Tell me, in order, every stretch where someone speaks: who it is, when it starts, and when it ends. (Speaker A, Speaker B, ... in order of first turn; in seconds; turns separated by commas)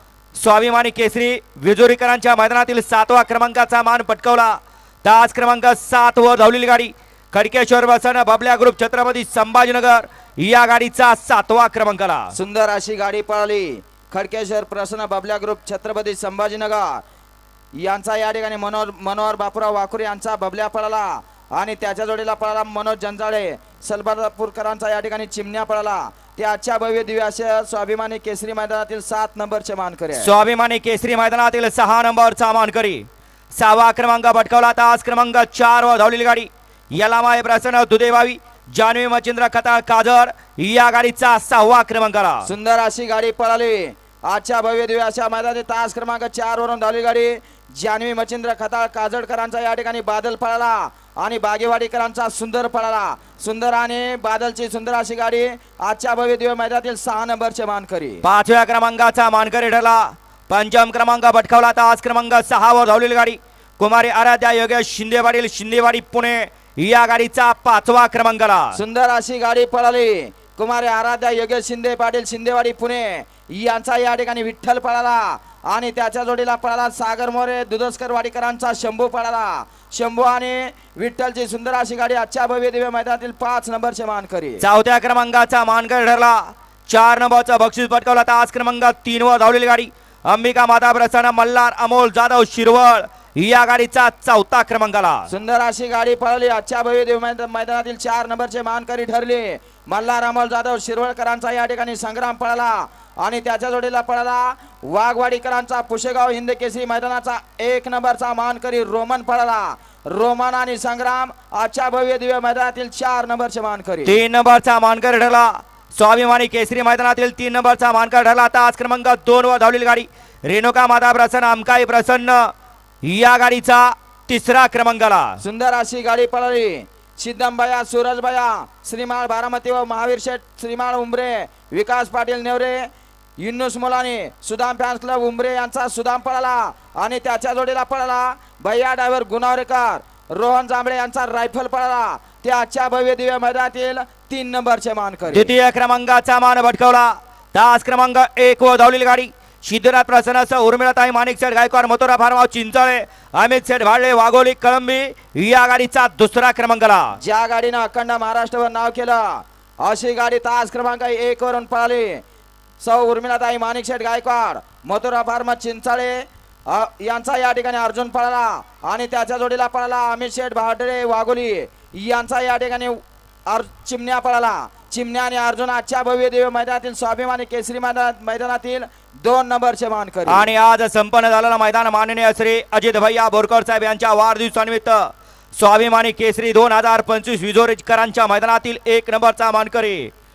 Speaker A: 0.4-12.3, Speaker B: 12.3-17.0, Speaker B: 17.8-30.3, Speaker A: 30.2-42.5, Speaker B: 42.5-58.2, Speaker A: 58.2-68.8, Speaker B: 68.7-84.6, Speaker A: 84.6-95.3, Speaker B: 95.3-114.2, Speaker A: 114.0-122.5, Speaker A: 123.0-125.4, Speaker B: 125.4-145.5, Speaker A: 145.3-157.2, Speaker B: 157.2-162.2, Speaker B: 162.8-180.5, Speaker A: 180.3-190.1